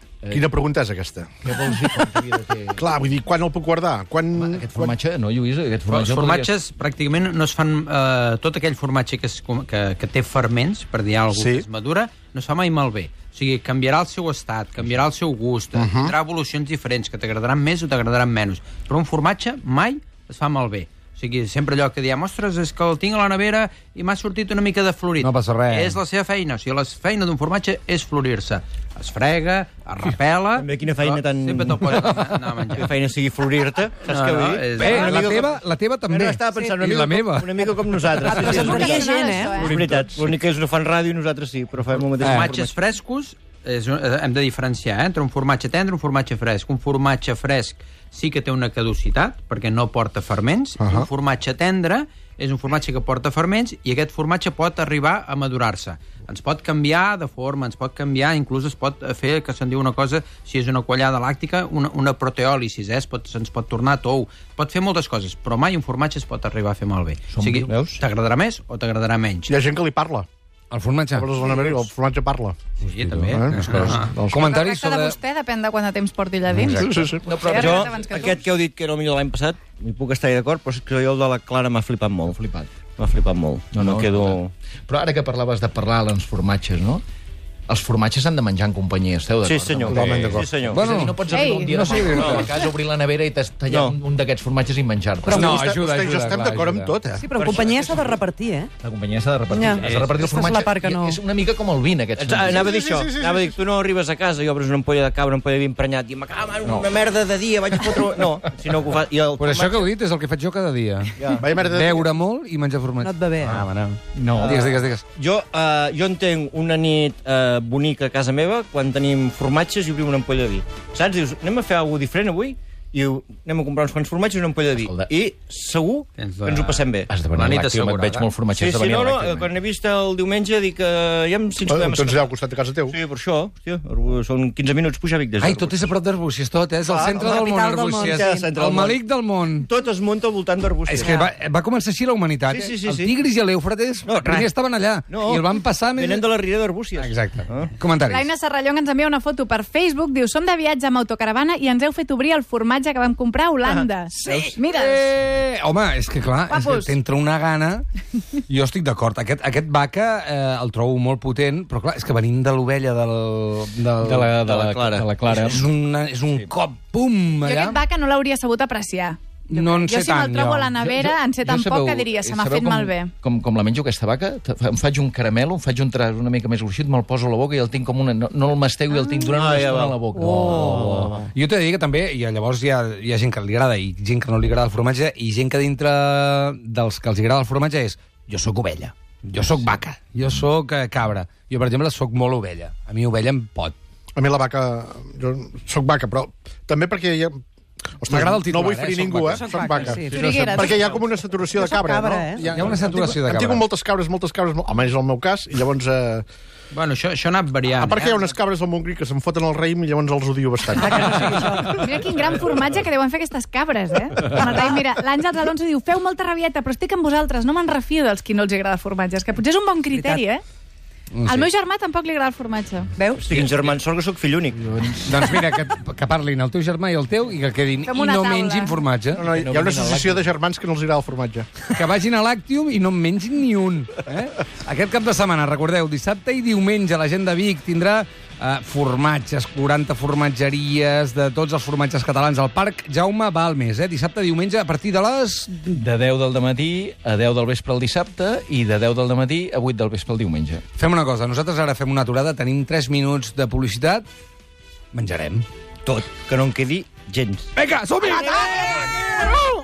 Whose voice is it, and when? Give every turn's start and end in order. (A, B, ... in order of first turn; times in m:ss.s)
0:00.2-0:00.5 A
0:00.3-0:02.1 B
0:01.4-0:02.8 A
0:02.8-0:04.9 B
0:04.4-0:06.5 A
0:05.9-0:32.8 C
0:11.3-0:11.7 B
0:15.8-0:16.2 B
0:25.2-0:26.0 D
0:30.6-0:32.2 E
0:32.8-0:42.8 E
0:34.1-0:35.1 C
0:34.8-0:37.7 D
0:38.2-0:39.8 F
0:38.3-0:39.8 G
0:42.2-0:42.5 D
0:42.2-1:09.5 C
0:50.8-0:51.1 B
1:07.3-1:08.0 A
1:09.5-1:10.2 B
1:10.7-1:11.3 D
1:11.1-1:12.6 B
1:12.8-1:15.2 D
1:12.8-1:14.1 C
1:13.3-1:14.5 B
1:14.3-1:18.4 G
1:16.5-1:17.0 D
1:16.8-1:17.4 B
1:17.2-1:18.3 A
1:17.5-1:22.4 E
1:22.3-1:22.7 A
1:23.0-1:24.5 E
1:23.7-1:27.0 A
1:27.7-1:35.6 A
1:29.4-1:30.9 E
1:29.9-1:32.5 D
1:30.0-1:30.4 B
1:31.3-1:31.7 G
1:32.1-1:32.5 E
1:33.7-1:34.0 E
1:35.2-1:37.9 B
1:35.3-1:37.0 D
1:37.2-1:38.7 F
1:38.8-1:42.7 A
1:39.5-1:41.2 F
1:39.8-1:40.2 C
1:42.2-1:49.9 E
1:42.5-1:43.6 B
1:49.4-1:55.0 D
1:51.2-1:51.4 E
1:51.3-1:52.1 B
1:53.0-1:53.6 F
1:54.1-1:54.7 A
1:54.4-2:07.1 E
2:04.8-2:05.1 A
2:06.2-2:08.2 C
2:07.1-2:09.5 A
2:08.5-2:12.3 E
2:11.6-2:13.0 B
2:12.9-2:15.9 E
2:15.4-2:19.7 D
2:16.8-2:19.0 E
2:17.2-2:18.5 F
2:19.6-2:21.2 E
2:20.8-2:26.2 D
2:22.5-2:23.2 E
2:24.0-2:27.7 E
2:27.0-2:28.3 D
2:28.1-2:35.1 G
2:33.6-2:34.6 E
2:34.2-2:37.8 D
2:36.5-2:37.0 G
2:38.5-2:47.8 D
2:44.0-2:45.7 A
2:44.4-2:45.6 E
2:47.4-2:53.1 G
2:49.5-2:51.1 D
2:51.4-3:01.2 A
2:59.3-3:00.0 E
3:00.2-3:00.7 F
3:00.6-3:01.3 E
3:00.6-3:13.7 D
3:14.2-3:17.4 B
3:18.0-3:26.2 B
3:18.1-3:19.9 D
3:19.3-3:20.9 F
3:20.1-3:21.0 G
3:21.5-3:22.6 F
3:22.5-3:23.7 D
3:26.7-3:28.1 C
3:27.8-3:31.8 B
3:30.7-3:31.9 F
3:31.7-3:40.4 G
3:39.9-3:40.2 F
3:41.2-3:41.5 D
3:41.2-3:42.9 G
3:43.0-3:43.3 F
3:43.2-3:44.6 E
3:44.6-3:45.2 A
3:45.0-3:49.2 D
3:47.8-3:48.8 G
3:49.2-3:51.5 B
3:49.2-3:50.3 A
3:51.7-4:05.5 D
4:05.5-4:10.6 A
4:10.8-4:14.1 D
4:14.9-4:15.4 D
4:15.9-4:17.5 E
4:17.6-4:18.8 D